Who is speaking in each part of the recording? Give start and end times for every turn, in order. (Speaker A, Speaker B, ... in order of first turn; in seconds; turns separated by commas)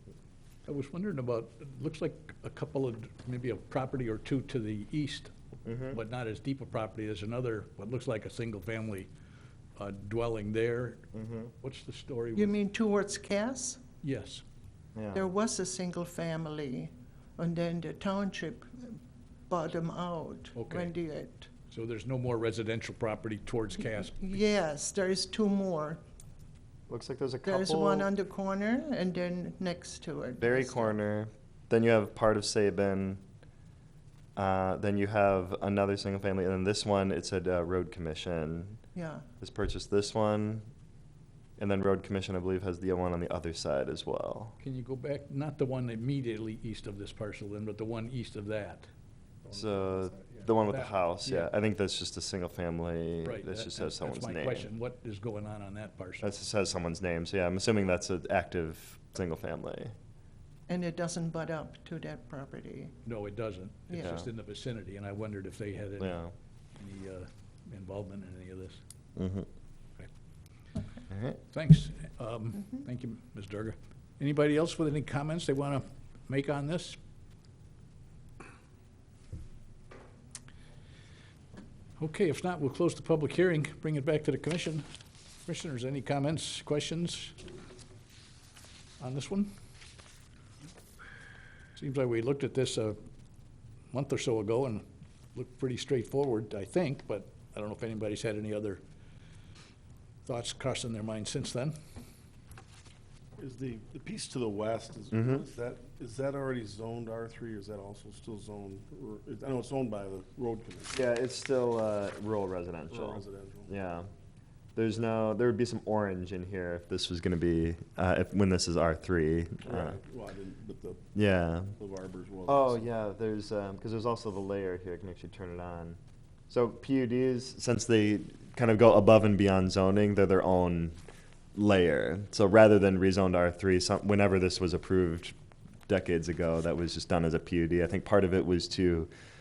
Speaker A: 0.7-5.3, Speaker B: 5.7-6.0, Speaker A: 5.9-9.1, Speaker A: 9.8-11.1, Speaker B: 11.1-11.5, Speaker A: 11.6-12.6, Speaker C: 12.3-13.8, Speaker A: 14.0-14.4, Speaker B: 14.9-15.3, Speaker C: 15.1-19.0, Speaker C: 19.5-21.5, Speaker A: 20.6-20.9, Speaker A: 21.7-24.4, Speaker C: 23.8-26.0, Speaker B: 26.9-28.1, Speaker C: 27.4-31.0, Speaker B: 30.4-33.2, Speaker B: 34.4-38.8, Speaker C: 39.0-39.3, Speaker B: 39.4-40.7, Speaker B: 41.6-44.5, Speaker A: 44.6-48.9, Speaker B: 49.5-54.7, Speaker A: 50.7-51.5, Speaker A: 53.2-56.3, Speaker B: 56.2-59.9, Speaker C: 60.7-63.0, Speaker A: 63.0-66.2, Speaker B: 63.9-64.3, Speaker B: 66.0-66.3, Speaker A: 66.8-68.8, Speaker B: 69.2-69.5, Speaker B: 71.1-71.4, Speaker A: 71.5-77.0, Speaker A: 82.0-84.9, Speaker A: 85.5-87.4, Speaker A: 89.0-89.5, Speaker A: 91.8-93.0, Speaker A: 93.9-94.8, Speaker A: 95.3-98.8, Speaker A: 100.2-101.8, Speaker D: 103.4-111.0, Speaker B: 105.1-105.4, Speaker B: 110.9-114.1, Speaker D: 112.9-113.7, Speaker B: 114.8-120.0, Speaker D: 119.6-121.0, Speaker B: 121.2-121.8, Speaker D: 121.8-122.9, Speaker B: 122.5-126.0, Speaker B: 126.5-131.0, Speaker B: 131.6-135.3, Speaker B: 135.9-139.1